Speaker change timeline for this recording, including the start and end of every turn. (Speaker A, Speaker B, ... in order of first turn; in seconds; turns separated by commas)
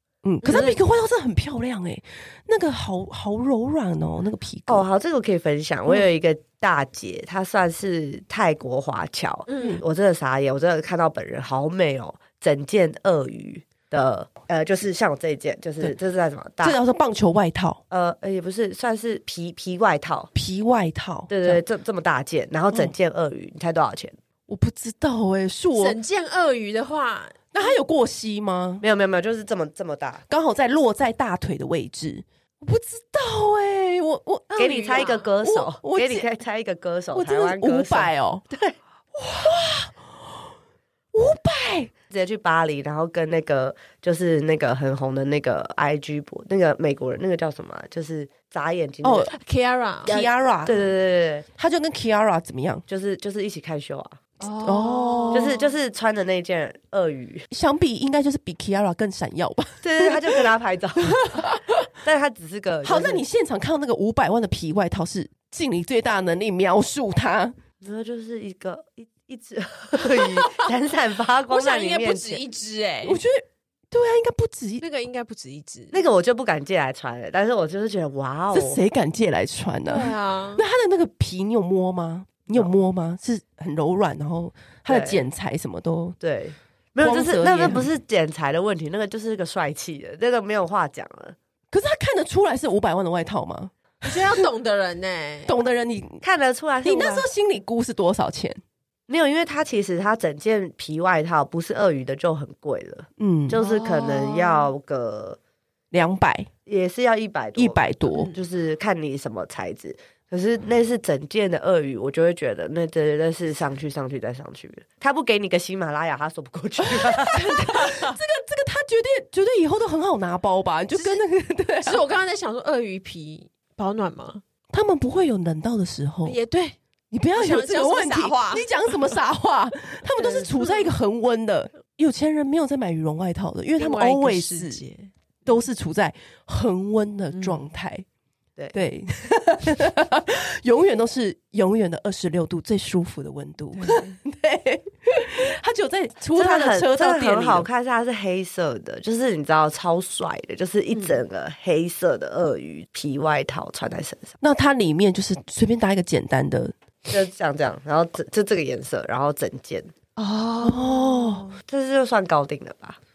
Speaker A: 0.2-4.8, Speaker B: 0.4-0.8, Speaker C: 4.7-16.8, Speaker B: 9.5-9.8, Speaker A: 16.6-17.8, Speaker C: 17.9-20.3, Speaker A: 20.3-21.6, Speaker C: 21.3-24.1, Speaker A: 24.5-26.0, Speaker B: 25.8-27.8, Speaker A: 27.5-28.8, Speaker C: 28.8-30.2, Speaker A: 30.3-36.3, Speaker B: 34.5-35.3, Speaker C: 34.6-38.8, Speaker A: 37.1-38.4, Speaker A: 39.2-40.5, Speaker A: 41.1-41.9, Speaker C: 42.1-49.3, Speaker A: 49.0-49.3, Speaker B: 49.3-50.2, Speaker A: 50.0-50.8, Speaker C: 50.1-51.4, Speaker A: 51.6-52.8, Speaker C: 52.9-54.2, Speaker B: 54.4-55.7, Speaker A: 54.6-55.5, Speaker C: 55.3-57.5, Speaker A: 57.5-60.5, Speaker C: 59.8-63.2, Speaker A: 61.0-61.9, Speaker A: 62.8-67.5, Speaker C: 67.8-72.4, Speaker B: 70.1-70.6, Speaker B: 71.5-73.2, Speaker A: 73.0-74.8, Speaker B: 74.8-76.0, Speaker C: 75.9-78.8, Speaker A: 78.5-86.2, Speaker B: 79.9-80.6, Speaker C: 84.9-85.2, Speaker C: 86.2-91.4, Speaker A: 87.0-87.9, Speaker A: 91.7-94.4, Speaker B: 94.0-95.5, Speaker A: 95.5-96.2, Speaker C: 96.2-97.3, Speaker A: 96.8-98.6, Speaker C: 99.1-105.4, Speaker A: 103.2-103.6, Speaker B: 103.6-104.7, Speaker A: 105.9-106.5, Speaker C: 106.7-117.5, Speaker A: 107.6-108.3, Speaker B: 108.1-108.3, Speaker A: 116.8-122.0, Speaker B: 117.5-118.2, Speaker B: 120.9-121.2, Speaker B: 121.8-124.4, Speaker A: 124.7-126.4, Speaker B: 126.2-126.8, Speaker A: 127.1-134.8, Speaker B: 127.3-129.2, Speaker B: 130.2-130.9, Speaker B: 133.8-135.6, Speaker A: 135.5-138.0, Speaker B: 137.3-137.7, Speaker A: 138.7-147.7, Speaker B: 143.8-144.2, Speaker C: 146.3-154.3, Speaker A: 154.4-156.7, Speaker C: 157.1-159.9, Speaker B: 160.2-161.6, Speaker A: 160.6-161.4, Speaker C: 161.6-163.0